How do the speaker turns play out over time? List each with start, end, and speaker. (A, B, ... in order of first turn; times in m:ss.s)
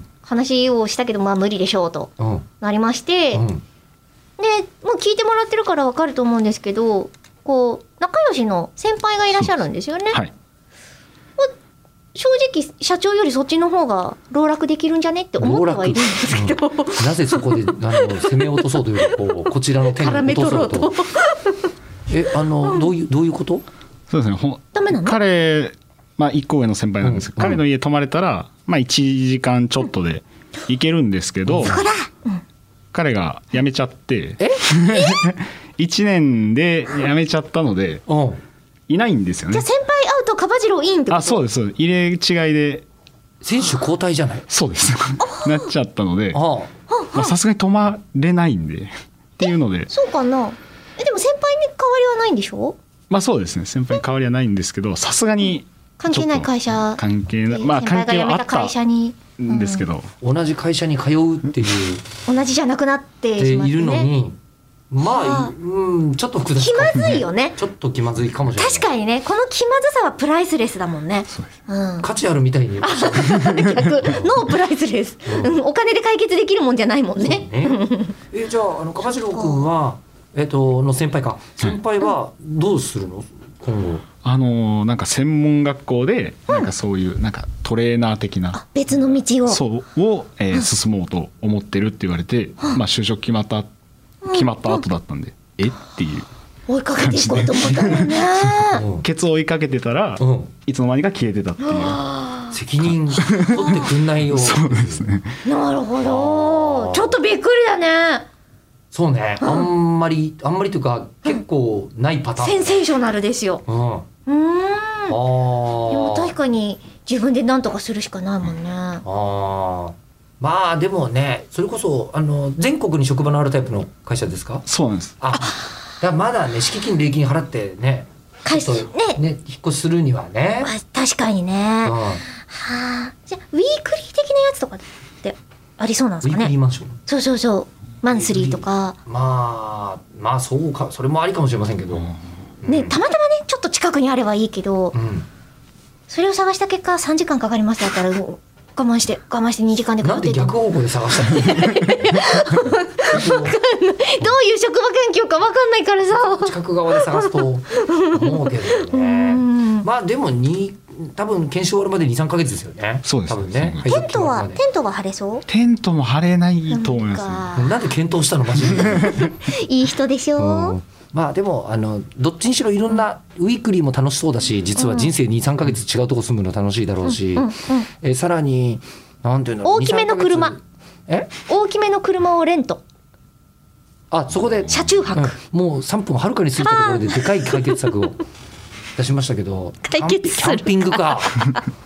0:00.2-0:03.4 A
0:02.2-0:02.5 B
0:03.3-0:03.6 B
0:04.4-0:10.2 A
0:12.1-0:21.6 A
0:15.4-0:20.9 B
0:22.1-0:23.6 B
0:24.1-0:31.8 C
0:24.7-0:25.2 A
0:27.0-0:27.6 B
0:31.4-0:31.8 B
0:31.6-0:32.4 A
0:32.9-0:38.0 C
0:34.9-0:35.2 A
0:38.1-0:38.4 B
0:38.9-0:39.6 C
0:39.5-0:41.4 A
0:41.1-0:42.8 C
0:43.4-0:44.5 B
0:44.5-0:46.4 C
0:45.2-0:45.7 A
0:46.3-0:46.7 B
0:46.9-0:47.3 A
0:47.1-0:49.9 C
0:49.4-0:52.8 A
0:53.1-0:58.7 C
0:56.0-0:59.9 A
0:59.4-1:00.1 C
1:00.2-1:02.0 B
1:02.3-1:04.1 A
1:03.4-1:04.4 B
1:04.9-1:08.9 B
1:05.0-1:05.5 A
1:06.6-1:07.6 A
1:08.6-1:12.1 A
1:12.0-1:14.3 B
1:12.8-1:18.2 A
1:15.3-1:15.6 B
1:17.2-1:24.0 B
1:19.0-1:19.6 A
1:24.2-1:33.7 C
1:28.5-1:29.6 A
1:34.2-1:34.8 A
1:34.3-1:36.3 C
1:36.7-1:38.8 A
1:37.0-1:42.0 C
1:38.7-1:39.0 B
1:40.2-1:40.5 B
1:41.6-1:42.6 A
1:42.5-1:45.1 B
1:43.2-1:45.3 C
1:43.5-1:43.8 A
1:45.4-1:48.2 A
1:46.0-1:47.2 B
1:48.9-1:52.8 B
1:49.4-1:49.7 A
1:52.4-1:53.6 A
1:53.7-1:54.1 B
1:54.3-1:55.2 A
1:55.1-1:56.3 B
1:55.9-1:59.0 A
1:59.0-2:04.7 B
2:04.7-2:05.2 C
2:05.2-2:10.7 B
2:08.4-2:09.2 A
2:10.6-2:16.5 A
2:11.8-2:12.2 B
2:16.2-2:17.0 B
2:17.1-2:19.0 A
2:18.1-2:22.1 B
2:22.6-2:22.9 B
2:22.7-2:24.9 A
2:24.9-2:25.3 B
2:26.1-2:30.6 A
2:30.0-2:31.7 B
2:31.2-2:39.9 A
2:33.1-2:33.6 B
2:36.1-2:44.6 B
2:43.1-2:43.8 C
2:43.8-2:45.4 A
2:45.5-2:47.5 C
2:46.7-2:47.7 A
2:47.6-2:49.2 B
2:48.7-2:50.8 A
2:50.4-3:01.3 B
2:54.8-2:55.1 A
2:57.0-2:57.9 A
2:59.6-3:00.6 A
3:01.5-3:02.8 A
3:04.1-3:08.2 B
3:04.7-3:05.4 A
3:06.6-3:07.8 A
3:09.0-3:11.4 B
3:09.8-3:11.6 A